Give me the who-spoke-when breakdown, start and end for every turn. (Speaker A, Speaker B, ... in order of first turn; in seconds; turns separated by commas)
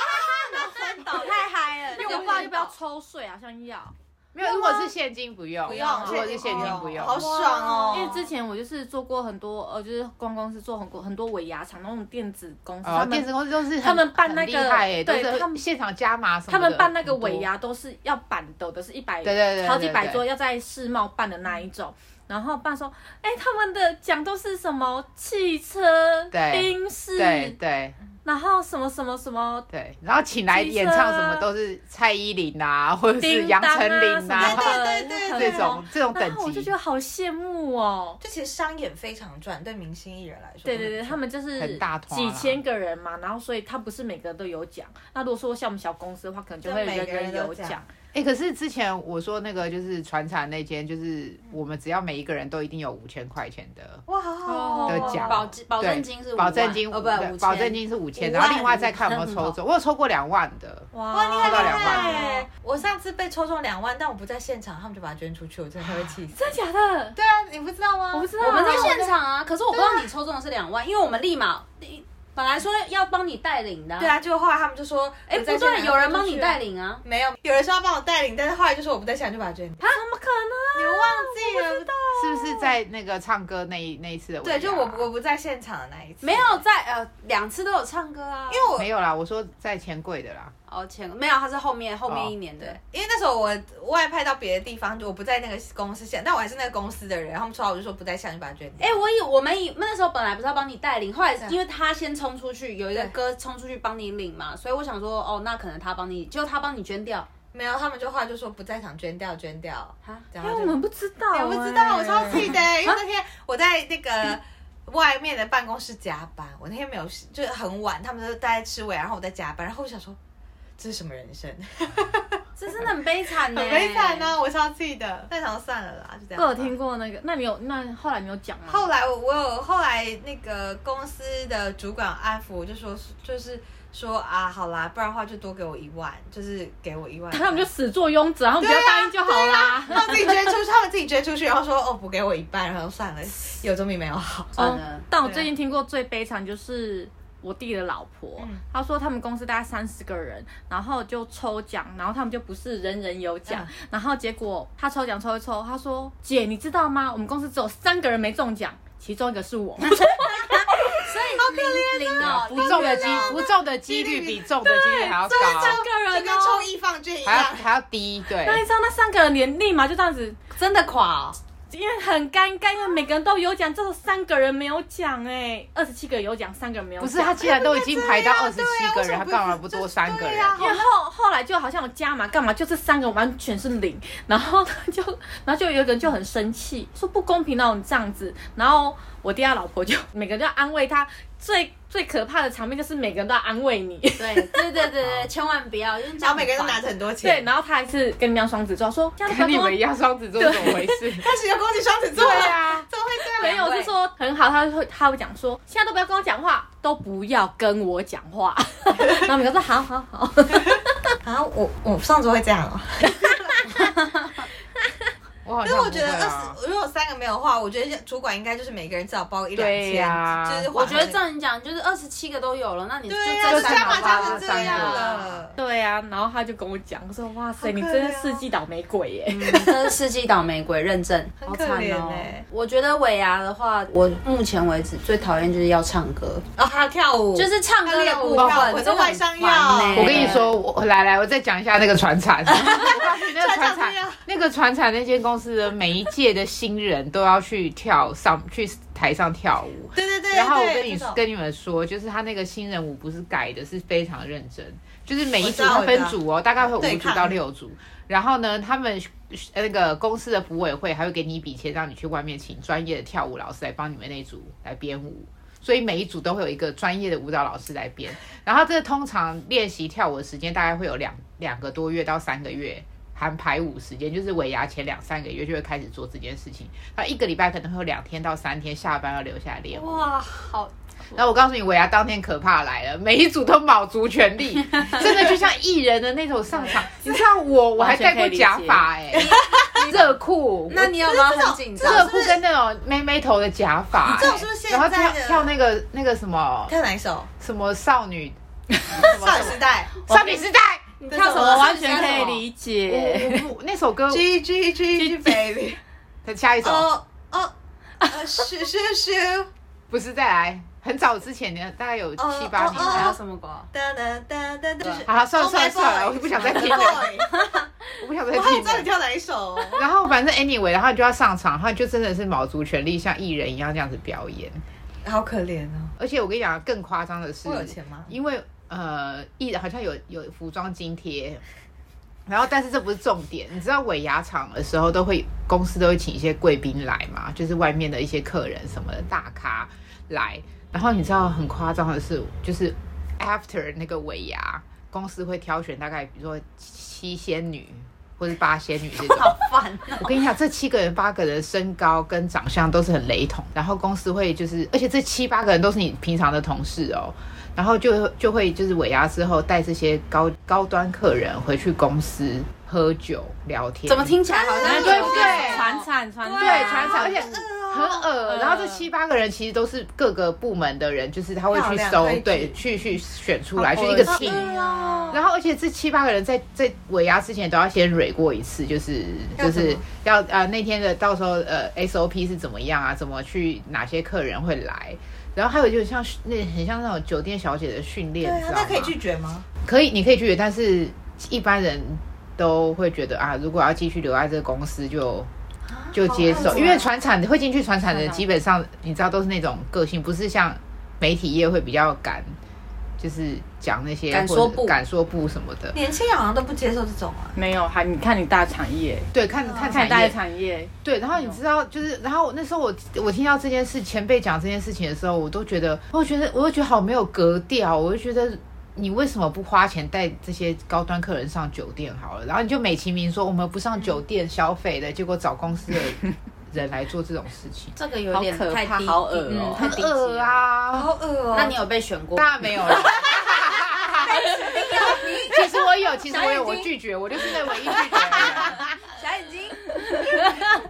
Speaker A: 0.1-1.4, Speaker B: 0.6-2.7, Speaker A: 1.9-2.6, Speaker C: 1.9-4.9, Speaker D: 4.3-7.3, Speaker A: 5.7-8.3, Speaker C: 5.7-15.6, Speaker D: 12.8-17.4, Speaker C: 16.5-27.6, Speaker D: 19.2-20.2, Speaker D: 26.3-27.9, Speaker C: 28.2-29.7, Speaker D: 29.7-34.8, Speaker C: 30.5-31.5, Speaker C: 33.2-38.2, Speaker A: 34.3-35.8, Speaker D: 35.3-36.7, Speaker A: 38.2-41.2, Speaker C: 40.6-47.9, Speaker D: 41.6-42.6, Speaker A: 46.6-47.8, Speaker D: 48.1-54.0, Speaker A: 54.1-55.4, Speaker C: 54.5-55.3, Speaker D: 54.9-62.2, Speaker B: 55.2-59.5, Speaker C: 60.9-62.5, Speaker A: 61.1-66.4, Speaker C: 66.3-67.2, Speaker A: 67.2-69.1, Speaker C: 68.1-69.0, Speaker B: 68.4-74.1, Speaker A: 69.7-70.1, Speaker A: 74.0-79.9, Speaker B: 75.3-77.0, Speaker C: 79.8-82.7, Speaker A: 80.7-81.9, Speaker D: 82.2-85.1, Speaker A: 84.4-86.6, Speaker B: 86.2-88.7, Speaker A: 88.5-88.9, Speaker D: 88.8-90.5, Speaker B: 90.7-92.8, Speaker D: 92.1-92.3, Speaker A: 92.6-99.0, Speaker B: 98.8-107.3, Speaker A: 107.5-110.8, Speaker C: 110.4-112.6, Speaker A: 111.3-120.2, Speaker B: 112.3-113.0, Speaker A: 120.8-122.4, Speaker B: 122.6-124.3, Speaker A: 123.5-126.7, Speaker C: 126.3-128.9, Speaker A: 128.7-137.7, Speaker C: 137.3-140.3, Speaker A: 138.6-144.7, Speaker B: 144.5-145.0, Speaker C: 144.6-161.0, Speaker A: 145.2-145.5, Speaker B: 161.1-163.4, Speaker A: 161.2-164.5, Speaker D: 162.2-165.8, Speaker C: 164.6-166.6, Speaker A: 165.3-167.7, Speaker D: 167.2-168.6, Speaker C: 168.4-170.4, Speaker B: 170.5-171.4, Speaker C: 171.7-177.4, Speaker D: 177.0-180.8, Speaker A: 177.4-180.8, Speaker C: 180.5-194.6, Speaker B: 194.2-196.9, Speaker A: 196.2-197.5, Speaker C: 197.2-199.8, Speaker D: 199.2-201.3, Speaker C: 200.4-201.0, Speaker A: 201.2-203.6, Speaker D: 202.1-202.8, Speaker C: 202.2-211.1, Speaker B: 203.4-203.9, Speaker A: 211.2-213.7, Speaker C: 213.1-213.7, Speaker B: 213.8-214.4, Speaker D: 215.4-216.6, Speaker A: 215.6-221.2, Speaker D: 219.5-221.1, Speaker B: 220.7-225.2, Speaker A: 223.1-225.5, Speaker D: 223.4-225.3, Speaker C: 225.5-229.6, Speaker A: 227.6-228.5, Speaker B: 229.3-236.4, Speaker A: 231.4-232.4, Speaker A: 236.6-240.4, Speaker B: 237.3-240.5, Speaker D: 238.3-238.7, Speaker D: 239.9-280.1, Speaker A: 242.5-244.2, Speaker A: 249.9-251.2, Speaker A: 255.3-257.4, Speaker B: 279.7-280.7, Speaker D: 281.1-290.9, Speaker C: 287.8-288.9, Speaker A: 289.1-289.9, Speaker B: 289.1-292.1, Speaker A: 290.9-292.4, Speaker D: 291.8-296.8, Speaker A: 294.0-295.5, Speaker A: 296.7-297.3, Speaker D: 297.4-298.4, Speaker C: 298.8-299.4, Speaker A: 298.9-299.9, Speaker D: 300.0-300.9, Speaker C: 300.1-300.4, Speaker B: 301.0-302.4, Speaker A: 301.1-302.3, Speaker C: 301.1-303.5, Speaker D: 302.9-304.2, Speaker A: 304.1-305.8, Speaker C: 304.9-305.4, Speaker D: 306.2-306.9, Speaker A: 306.6-309.5, Speaker D: 309.9-313.2, Speaker A: 312.2-313.2, Speaker B: 312.5-313.7, Speaker A: 313.7-317.5, Speaker D: 315.1-317.2, Speaker B: 316.4-317.6, Speaker D: 318.0-318.9, Speaker A: 318.3-319.8, Speaker D: 319.7-324.6, Speaker A: 325.0-325.9, Speaker D: 326.0-331.4, Speaker A: 327.4-328.1, Speaker D: 332.3-349.3, Speaker B: 348.9-350.1, Speaker D: 350.0-365.7, Speaker B: 363.9-365.8, Speaker A: 364.3-365.7, Speaker C: 364.6-367.3, Speaker A: 366.2-368.1, Speaker D: 366.4-374.5, Speaker C: 368.2-368.9, Speaker A: 371.5-372.6, Speaker C: 373.6-375.2, Speaker B: 373.8-375.1, Speaker A: 374.0-375.1, Speaker D: 375.1-388.9, Speaker A: 379.4-379.8, Speaker A: 388.2-389.5, Speaker D: 389.6-395.3, Speaker A: 395.7-396.7, Speaker D: 395.9-402.3, Speaker C: 396.3-396.8, Speaker C: 397.9-398.2, Speaker D: 403.0-405.8, Speaker B: 404.1-404.8, Speaker A: 405.7-407.3, Speaker C: 407.3-409.1, Speaker D: 409.1-410.1, Speaker A: 409.4-409.9, Speaker C: 409.7-411.4, Speaker D: 410.8-427.7, Speaker B: 427.8-429.8, Speaker C: 428.1-430.4, Speaker D: 429.5-430.9, Speaker A: 430.8-431.6, Speaker B: 431.3-433.2, Speaker D: 432.1-438.6, Speaker A: 434.1-435.3, Speaker B: 434.3-435.3, Speaker B: 436.1-436.7, Speaker B: 437.3-440.0